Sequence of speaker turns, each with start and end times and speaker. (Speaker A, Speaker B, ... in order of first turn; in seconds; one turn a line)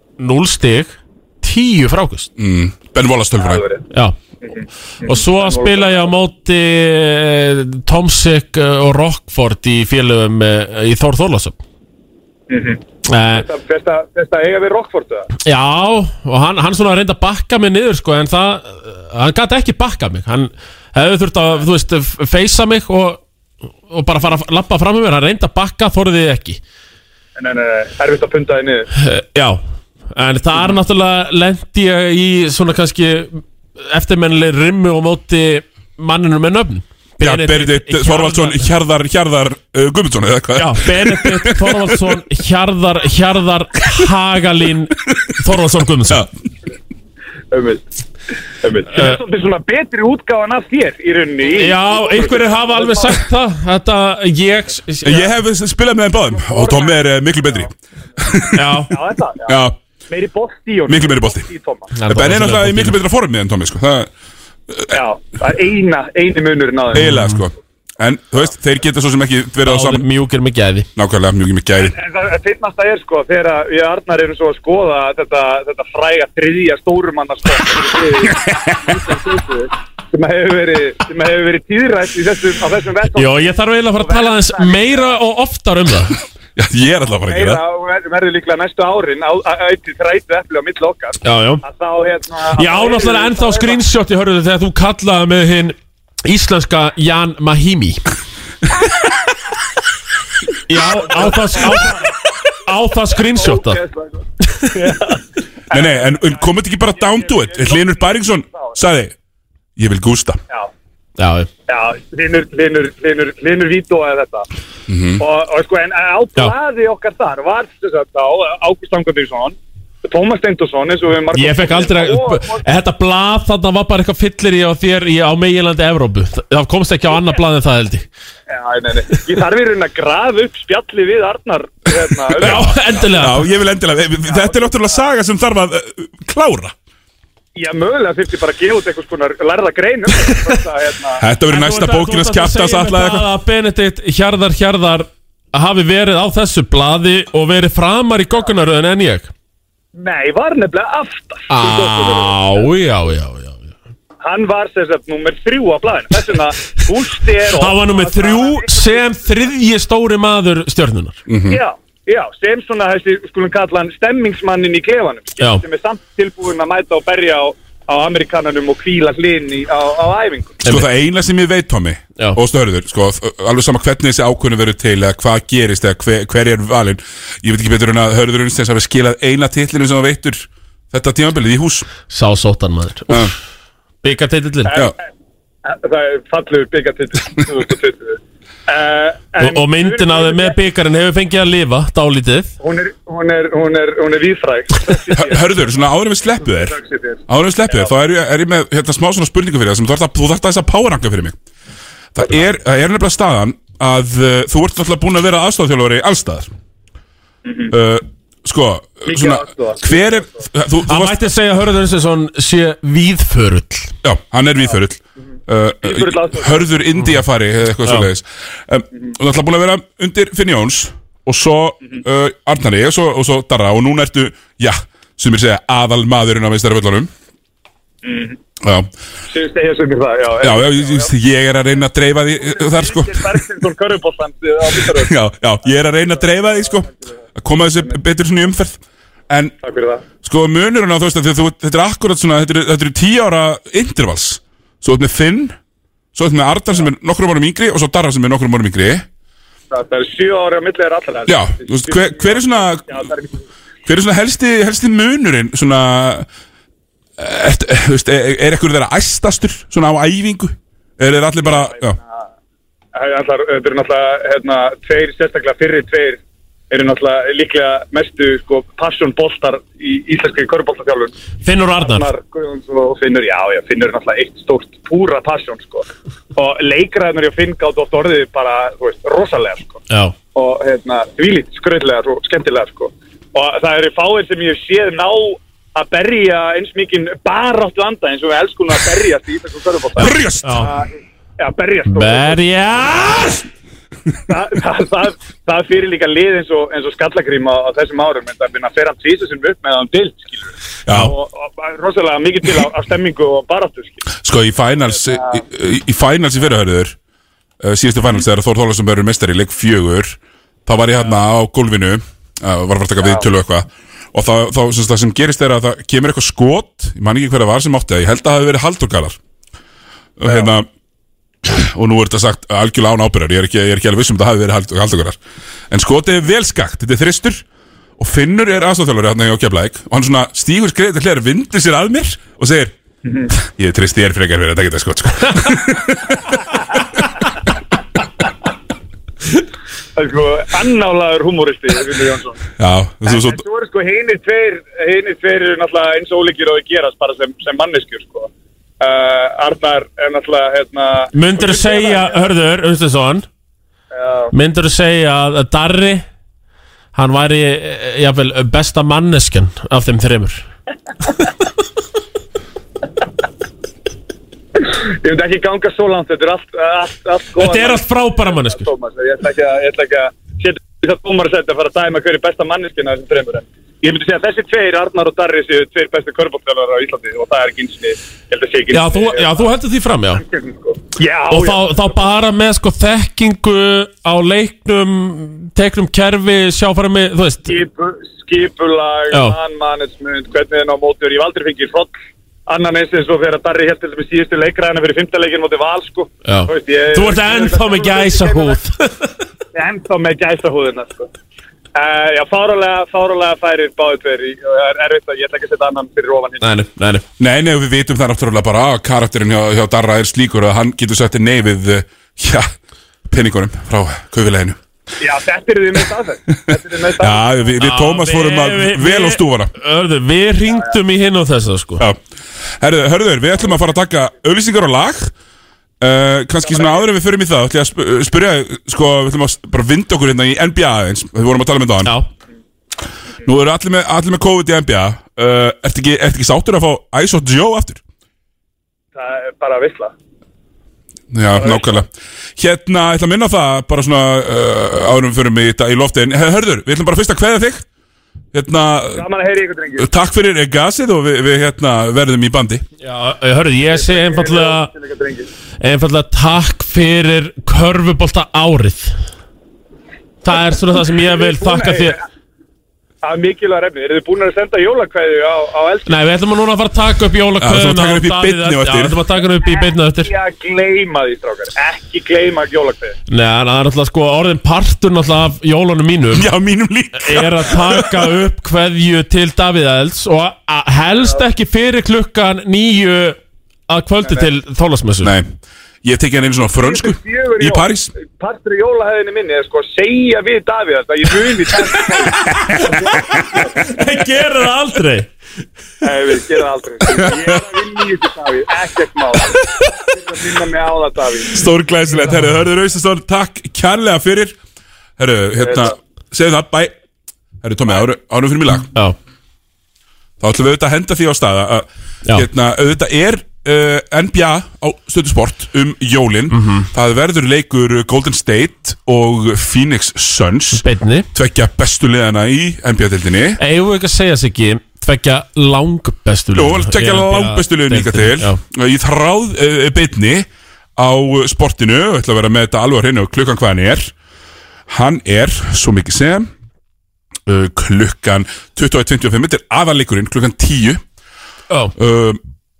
Speaker A: 0.2-2.3
Speaker B: 2.4-3.6
Speaker C: 3.4-3.8
Speaker A: 3.9-4.2
Speaker C: 4.4-6.1
Speaker A: 5.0-11.6
Speaker C: 12.5-15.3
Speaker A: 13.1-13.4
Speaker A: 15.4-23.2
Speaker A: 23.9-26.6
Speaker C: 27.4-28.9
Speaker A: 28.9-29.6
Speaker A: 30.1-38.7
Speaker B: 37.2-42.0
Speaker A: 40.5-46.2
Speaker C: 47.5-47.8
Speaker C: 48.6-53.2
Speaker A: 51.4-55.3
Speaker B: 55.0-58.6
Speaker C: 56.3-57.7
Speaker A: 58.5-58.9
Speaker C: 58.9-61.9
Speaker B: 59.5-59.8
Speaker B: 60.9-61.4
Speaker A: 61.9-63.0
Speaker B: 62.1-64.1
Speaker C: 64.9-67.1
Speaker B: 66.9-70.0
Speaker A: 67.0-67.4
Speaker A: 69.7-70.9
Speaker B: 71.0-71.9
Speaker C: 71.8-85.2
Speaker A: 83.1-86.2
Speaker B: 86.5-87.6
Speaker C: 87.1-93.8
Speaker A: 91.2-91.6
Speaker A: 92.6-98.0
Speaker A: 100.7-102.1
Speaker C: 101.1-101.9
Speaker A: 102.7-103.8
Speaker C: 103.3-104.2
Speaker C: 104.7-105.2
Speaker C: 105.7-108.8
Speaker B: 105.7-109.1
Speaker B: 109.8-110.4
Speaker A: 111.2-111.5
Speaker C: 111.7-114.5
Speaker B: 114.9-115.2
Speaker C: 115.2-122.6
Speaker A: 121.3-128.1
Speaker C: 128.5-132.8
Speaker B: 132.4-136.7
Speaker A: 132.4-133.5
Speaker C: 134.2-135.0
Speaker C: 137.5-141.2
Speaker B: 141.2-143.3
Speaker A: 141.5-149.3
Speaker C: 149.9-152.7
Speaker A: 151.5-153.7
Speaker C: 154.2-159.2
Speaker A: 157.6-161.2
Speaker B: 161.3-161.6
Speaker C: 161.5-170.6
Speaker B: 170.6-181.9
Speaker A: 182.1-183.3
Speaker A: 184.0-184.8
Speaker C: 185.6-190.6
Speaker A: 189.4-192.5
Speaker C: 192.6-195.7
Speaker B: 195.1-196.8
Speaker C: 196.4-197.9
Speaker B: 197.3-201.4
Speaker B: 202.1-206.5
Speaker C: 207.4-207.7
Speaker B: 207.7-211.2
Speaker C: 209.1-210.3
Speaker A: 210.9-213.9
Speaker B: 214.0-227.1
Speaker C: 215.8-216.8
Speaker C: 228.0-228.4
Speaker B: 228.6-228.9
Speaker C: 229.3-231.1
Speaker B: 230.4-233.4
Speaker C: 232.3-236.9
Speaker B: 234.9-239.5
Speaker C: 239.6-240.0
Speaker B: 240.2-245.6
Speaker B: 246.1-249.0
Speaker C: 249.7-253.4
Speaker B: 251.3-253.0
Speaker B: 253.8-256.3
Speaker B: 257.2-262.0
Speaker C: 261.4-262.2
Speaker C: 262.9-271.1
Speaker A: 271.4-272.1
Speaker C: 271.8-279.8
Speaker C: 280.3-292.4
Speaker B: 290.0-290.7
Speaker A: 290.4-290.7
Speaker A: 291.9-293.4
Speaker C: 294.3-304.1
Speaker B: 300.9-301.1
Speaker B: 304.2-306.9
Speaker C: 305.0-305.3
Speaker B: 307.6-319.2
Speaker B: 320.2-320.7
Speaker B: 321.4-325.2
Speaker B: 325.7-327.4
Speaker B: 328.0-332.7
Speaker C: 333.0-333.3
Speaker B: 333.3-336.6
Speaker C: 339.9-342.4
Speaker B: 342.6-343.4
Speaker C: 343.1-348.3
Speaker C: 348.8-352.3
Speaker A: 351.1-353.2
Speaker C: 353.9-354.3
Speaker A: 354.3-356.1
Speaker A: 356.9-360.4
Speaker C: 364.6-379.5
Speaker A: 367.4-368.6
Speaker A: 378.7-380.2
Speaker C: 380.1-381.9
Speaker A: 381.3-387.5
Speaker C: 387.4-398.6
Speaker A: 389.1-389.4
Speaker A: 396.2-399.1
Speaker C: 399.5-401.1
Speaker C: 401.7-406.5
Speaker A: 406.4-407.0
Speaker B: 407.2-412.5
Speaker B: 413.1-414.6
Speaker C: 415.0-417.5
Speaker B: 417.0-419.5
Speaker A: 417.6-421.8
Speaker B: 422.6-425.1
Speaker B: 425.8-431.9
Speaker C: 426.4-426.9
Speaker B: 433.2-437.8
Speaker C: 438.9-439.9
Speaker B: 441.1-447.6
Speaker C: 441.4-441.8
Speaker B: 448.3-449.0
Speaker C: 448.9-449.9
Speaker B: 449.8-452.6
Speaker A: 452.8-454.7
Speaker C: 453.7-455.3
Speaker A: 455.6-458.9
Speaker A: 460.2-462.0
Speaker C: 461.0-462.0
Speaker C: 463.0-465.9
Speaker A: 465.9-470.1
Speaker B: 467.4-469.0
Speaker C: 469.4-473.0
Speaker A: 473.1-476.2
Speaker B: 476.1-478.1
Speaker A: 476.9-483.2
Speaker A: 483.7-485.1
Speaker B: 485.0-487.9
Speaker C: 486.6-492.9
Speaker A: 493.3-495.1
Speaker C: 495.8-501.4
Speaker B: 496.9-497.2
Speaker B: 501.3-504.4
Speaker B: 505.0-506.7
Speaker C: 505.4-505.7
Speaker B: 507.4-508.7
Speaker B: 510.2-520.6
Speaker A: 516.3-516.7
Speaker A: 520.5-521.1
Speaker B: 521.1-523.4
Speaker A: 523.4-528.4
Speaker B: 526.3-533.9
Speaker B: 534.7-536.3
Speaker B: 537.3-540.8
Speaker B: 541.8-542.2